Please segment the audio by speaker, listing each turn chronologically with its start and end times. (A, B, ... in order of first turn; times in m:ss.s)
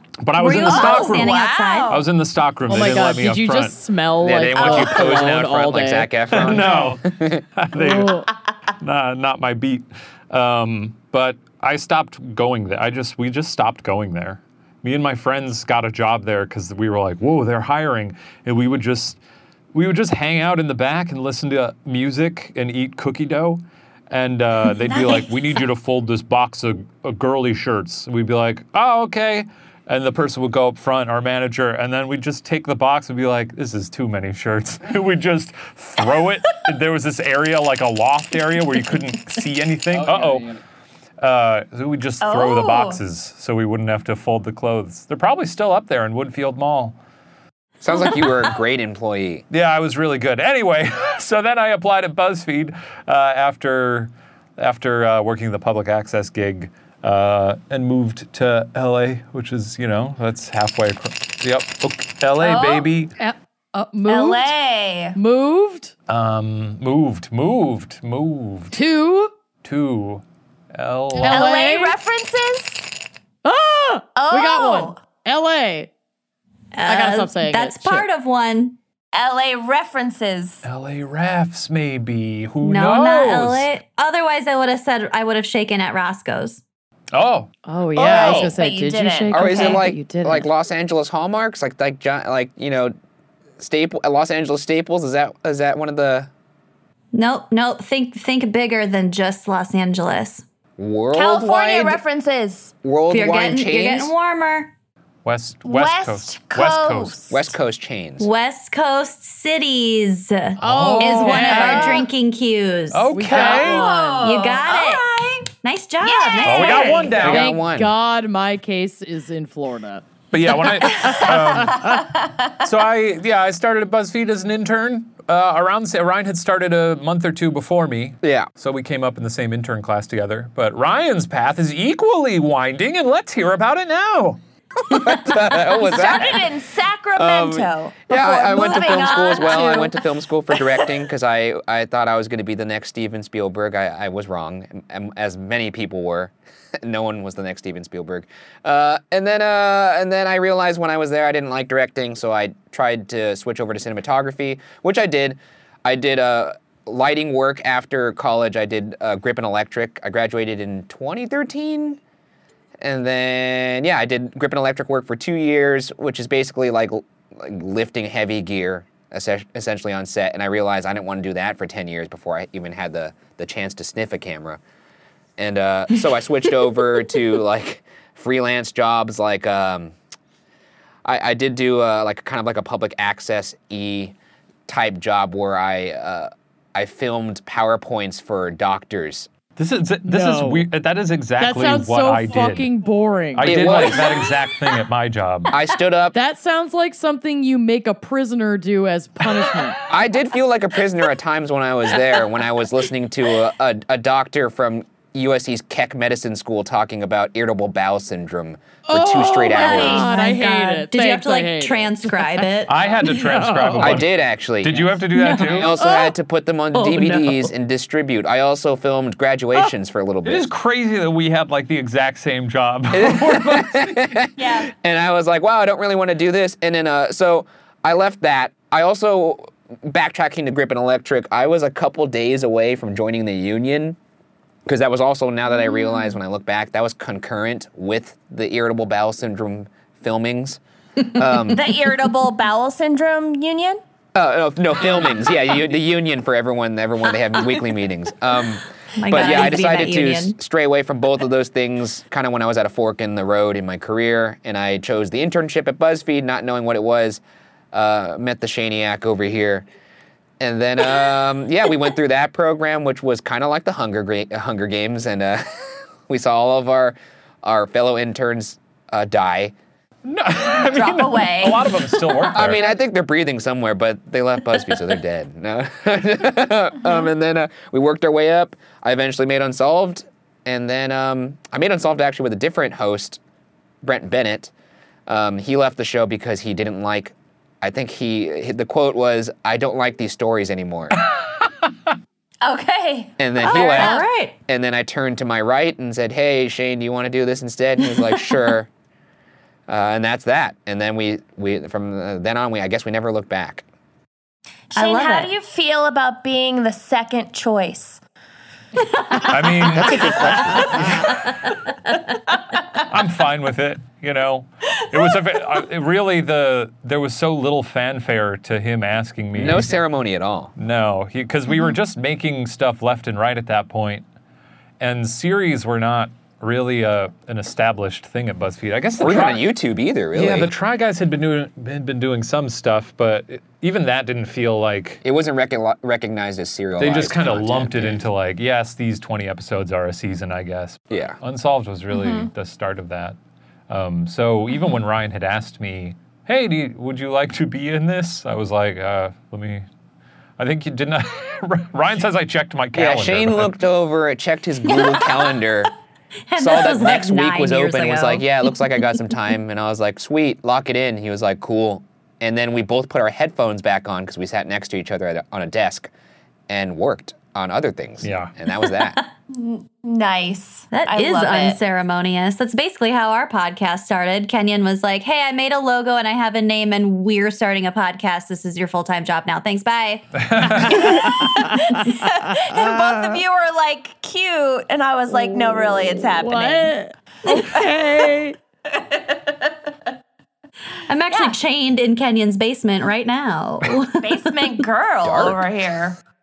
0:00.2-0:03.8 A
0:00.4-0:02.0 B
0:00.5-0:02.0 C
0:02.7-0:06.6 D
0:04.2-0:07.4 E
0:04.6-0:05.2 C
0:06.3-0:08.3 A
0:07.8-0:08.3 D
0:08.8-0:19.2 A
0:19.7-0:40.6 A
0:25.0-0:25.3 C
0:41.2-0:47.0 A
0:42.2-0:43.0 C
0:47.8-0:49.4 E
0:49.5-1:03.1 A
1:02.4-1:02.9 C
1:03.2-1:04.5 D
1:04.1-1:05.2 C
1:05.2-1:05.9 D
1:06.1-1:08.8 A
1:08.7-1:09.3 D
1:09.6-1:11.5 A
1:11.2-1:12.0 D
1:11.3-1:12.9 C
1:13.4-1:15.9 D
1:14.2-1:15.0 C
1:16.8-1:18.8 B
1:16.9-1:18.1 D
1:19.1-1:20.6 C
1:20.6-1:23.7 A
1:22.6-1:26.6 B
1:27.1-1:27.5 A
1:27.7-1:30.5 D
1:28.0-1:28.6 E
1:28.0-1:29.9 C
1:29.3-1:32.9 E
1:33.6-1:36.3 E
1:37.1-1:40.4 B
1:40.8-1:42.0 E
1:41.1-1:42.7 C
1:42.8-1:44.1 E
1:43.1-1:44.7 B
1:45.2-1:47.3 A
1:45.6-1:47.4 C
1:47.3-1:48.3 E
1:48.2-1:53.1 B
1:50.6-1:52.0 A
1:50.6-1:52.1 D
1:52.9-1:53.9 A
1:53.1-1:54.4 D
1:53.3-1:55.5 C
1:54.2-1:55.1 B
1:55.6-1:57.2 B
1:56.0-1:57.2 C
1:56.4-1:57.5 A
1:57.2-1:57.9 E
1:57.2-2:02.0 D
2:00.3-2:14.4 A
2:01.0-2:02.5 C
2:08.2-2:08.5 E
2:14.9-2:16.5 E
2:15.8-2:20.0 C
2:17.2-2:42.0 E
2:42.8-2:54.6 E
2:55.4-2:59.9 E
3:01.0-3:04.2 E
3:04.7-3:09.3 E
3:09.6-3:12.7 A
3:10.0-3:10.7 D
3:11.4-3:13.8 D
3:13.3-3:15.5 A
3:13.4-3:14.2 E
3:15.5-3:16.2 E
3:16.1-3:19.8 D
3:19.9-3:30.1 E
3:28.9-3:32.5 D
3:29.4-3:32.7 B
3:32.7-3:35.8 A
3:33.0-3:34.0 D
3:33.8-3:40.5 E
3:35.2-3:36.1 B
3:36.7-3:37.5 B
3:40.2-3:44.0 A
3:42.9-3:54.0 E
3:44.4-3:44.7 C
3:54.7-4:00.6 E
4:01.1-4:01.8 E
4:01.4-4:03.8 C
4:04.2-4:17.2 E
4:09.0-4:10.4 B
4:17.7-4:19.7 E
4:20.4-4:25.4 E
4:26.1-4:29.5 E
4:30.0-4:32.6 A
4:30.5-4:32.5 C
4:32.3-4:43.2 E
4:43.8-4:44.5 E
4:45.1-4:51.0 E
4:52.4-4:54.0 C
4:53.2-4:58.7 E
4:53.4-4:54.3 B
4:59.7-5:03.6 E
5:04.7-5:08.0 C
5:04.8-5:05.3 B
5:09.3-5:11.0 A
5:09.7-5:11.1 E
5:12.9-5:19.7 A
5:19.4-5:20.5 E
5:20.6-5:24.1 A
5:24.8-5:29.4 A
5:29.0-5:30.5 E
5:30.1-5:35.0 A
5:35.0-5:38.1 E
5:36.8-5:43.2 A
5:40.9-5:41.2 E
5:41.9-5:42.3 C
5:43.7-5:49.7 A
5:50.4-5:53.5 A
5:52.7-5:55.7 E
5:56.3-5:58.3 B
5:56.4-6:05.9 E
6:06.5-6:09.0 E
6:08.0-6:08.3 A
6:09.3-6:11.6 C
6:10.7-6:21.4 B
6:20.2-6:21.0 A
6:20.7-6:26.7 C
6:21.0-6:23.2 D
6:26.1-6:28.4 D
6:28.8-6:29.4 C
6:30.9-6:34.3 B
6:34.0-6:36.0 C
6:35.0-6:35.4 E